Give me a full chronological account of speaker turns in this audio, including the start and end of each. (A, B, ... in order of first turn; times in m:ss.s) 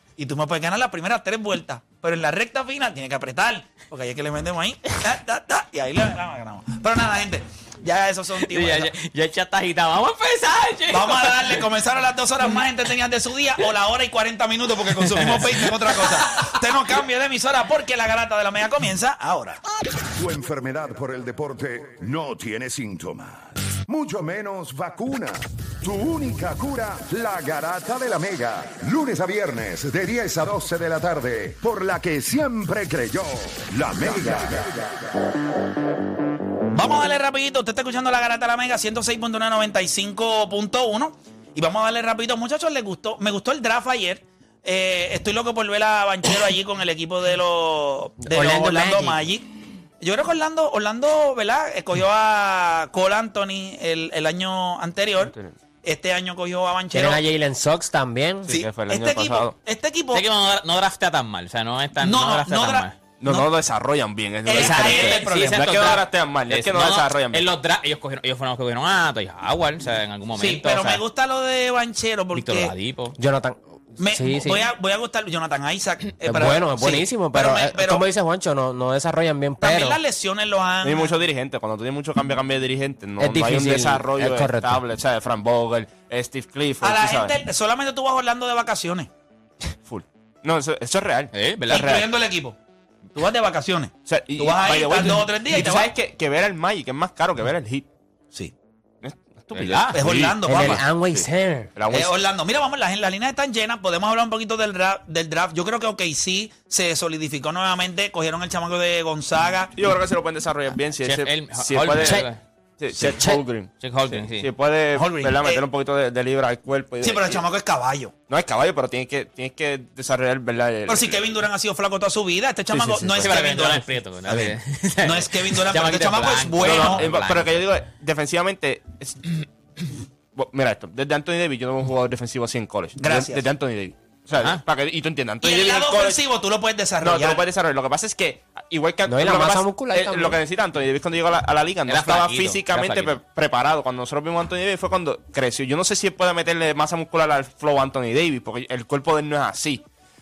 0:00.2-0:08.9 A
0:08.5-0:11.6 B
0:10.9-0:19.6 A
0:15.1-0:16.4 B
0:20.2-0:34.9 C
0:36.7-0:49.5 A
0:48.2-0:49.2 D
0:50.0-0:57.2 A
0:55.2-0:55.5 E
0:56.9-0:58.5 D
0:58.5-0:59.6 E
0:58.5-1:00.2 A
1:00.1-1:02.9 B
1:02.0-1:03.5 A
1:03.2-1:07.5 E
1:04.4-1:05.9 A
1:04.5-1:11.0 B
1:10.4-1:12.7 A
1:12.3-1:13.2 B
1:13.2-1:14.7 D
1:14.0-1:18.0 A
1:16.2-1:20.0 D
1:19.6-1:21.1 A
1:20.8-1:27.4 E
1:23.2-1:24.8 D
1:26.8-1:29.1 A
1:29.6-1:32.1 E
1:31.3-1:32.0 B
1:31.7-1:32.6 A
1:33.1-1:35.9 A
1:34.0-1:37.9 E
1:39.0-1:42.1 E
1:39.5-1:40.0 B
1:39.9-1:40.8 A
1:40.5-1:41.7 D
1:41.9-1:49.7 A
1:49.7-1:57.4 E
1:51.0-1:52.4 B
1:52.0-1:52.3 D
1:53.0-1:53.4 D
1:53.8-1:54.5 B
1:54.9-1:55.6 A
1:57.0-1:58.1 A
1:58.3-2:01.2 E
2:00.9-2:07.0 A
2:02.7-2:03.4 E
2:03.2-2:07.6 B
2:06.6-2:09.3 E
2:10.3-2:16.2 E
2:13.0-2:13.4 A
2:15.4-2:17.4 A
2:17.0-2:29.8 E
2:19.1-2:20.4 D
2:21.9-2:23.2 B